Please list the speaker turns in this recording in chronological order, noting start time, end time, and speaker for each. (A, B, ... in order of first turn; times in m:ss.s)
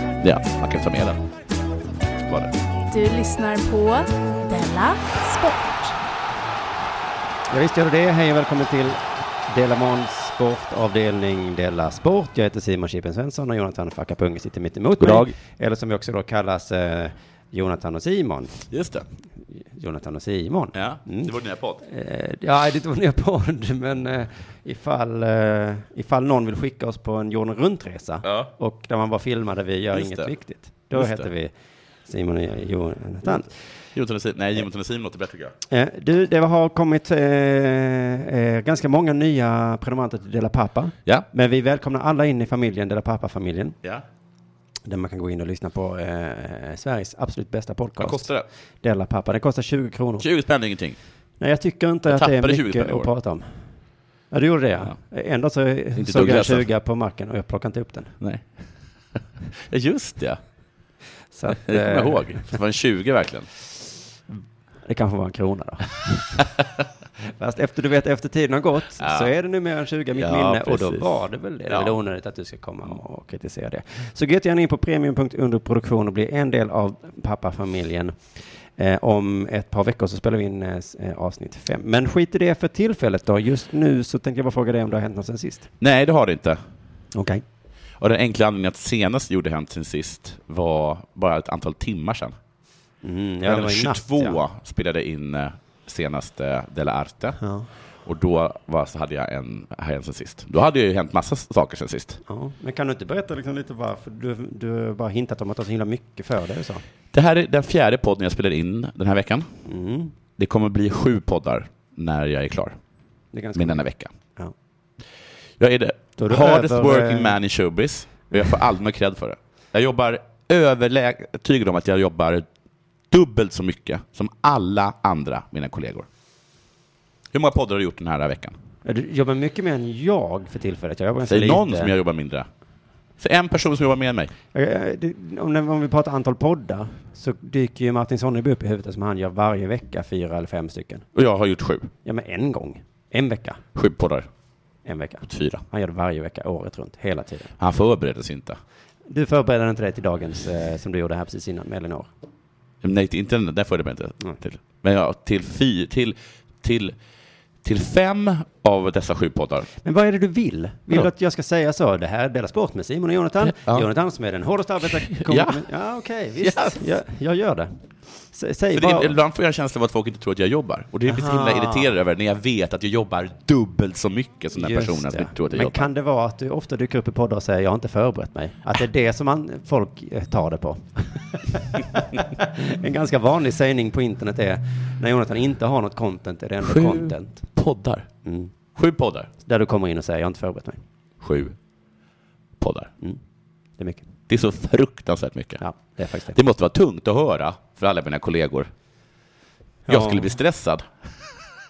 0:00.2-0:01.2 A
0:02.2-0:02.5 A
0:02.9-0:06.0 B
0:07.5-0:18.6 C
0:15.0-0:15.4 A
0:18.7-0:19.0 A
0:19.7-0:21.3 C
0:20.8-0:21.8 A
0:21.8-0:31.5 C
0:28.2-0:28.5 A
0:29.9-0:30.3 A
0:30.9-0:31.3 A
0:32.1-0:33.5 C
0:33.9-0:35.6 A
0:35.7-0:43.8 C
0:44.9-0:48.3 C
0:48.0-0:48.5 A
0:48.8-0:50.3 C
0:50.2-0:51.0 A
0:51.4-0:53.5 C
0:52.1-0:53.1 A
0:54.3-0:58.1 C
0:56.0-0:56.7 A
0:58.2-0:58.5 A
0:59.6-1:00.4 A
1:01.3-1:02.6 C
1:01.5-1:03.5 A
1:04.9-1:06.4 C
1:07.4-1:18.2 C
1:09.0-1:09.3 A
1:10.2-1:11.1 A
1:11.7-1:12.0 A
1:18.8-1:25.7 C
1:25.8-1:26.6 A
1:27.1-1:27.4 C
1:28.0-1:32.4 A
1:33.0-1:34.4 C
1:33.4-1:37.4 A
1:37.4-1:37.7 C
1:38.0-1:42.2 A
1:42.3-1:46.8 C
1:47.1-1:49.5 A
1:49.7-1:50.1 C
1:50.4-1:52.8 A
1:53.3-1:53.8 C
1:53.6-1:54.1 A
1:55.6-2:02.5 A
1:56.2-1:57.4 C
2:03.1-2:06.1 A
2:07.3-2:08.6 A
2:08.8-2:11.9 C
2:11.2-2:12.5 A
2:13.2-2:14.3 A
2:14.5-2:21.1 C
2:21.2-2:21.9 A
2:22.0-2:23.6 C
2:23.8-2:24.3 A
2:24.8-2:27.5 C
2:25.3-2:25.6 A
2:27.6-2:28.6 A
2:29.1-2:32.1 C
2:32.8-2:37.0 A
2:37.6-2:39.7 A
2:39.8-2:47.7 C
2:43.4-2:43.9 A
2:44.8-2:45.7 A
2:46.4-2:46.9 A
2:48.3-2:49.2 C
2:48.7-2:55.9 A
2:51.1-2:51.9 C
2:54.5-3:07.4 C
3:06.6-3:08.1 A
3:08.2-3:08.5 C
3:08.8-3:09.3 A
3:09.4-3:10.8 C
3:11.2-3:11.6 A
3:12.6-3:12.9 A
3:13.8-3:14.1 C
3:14.3-3:15.6 A
3:15.6-3:16.4 C
3:16.3-3:18.7 A
3:19.9-3:20.4 C
3:19.9-3:21.1 A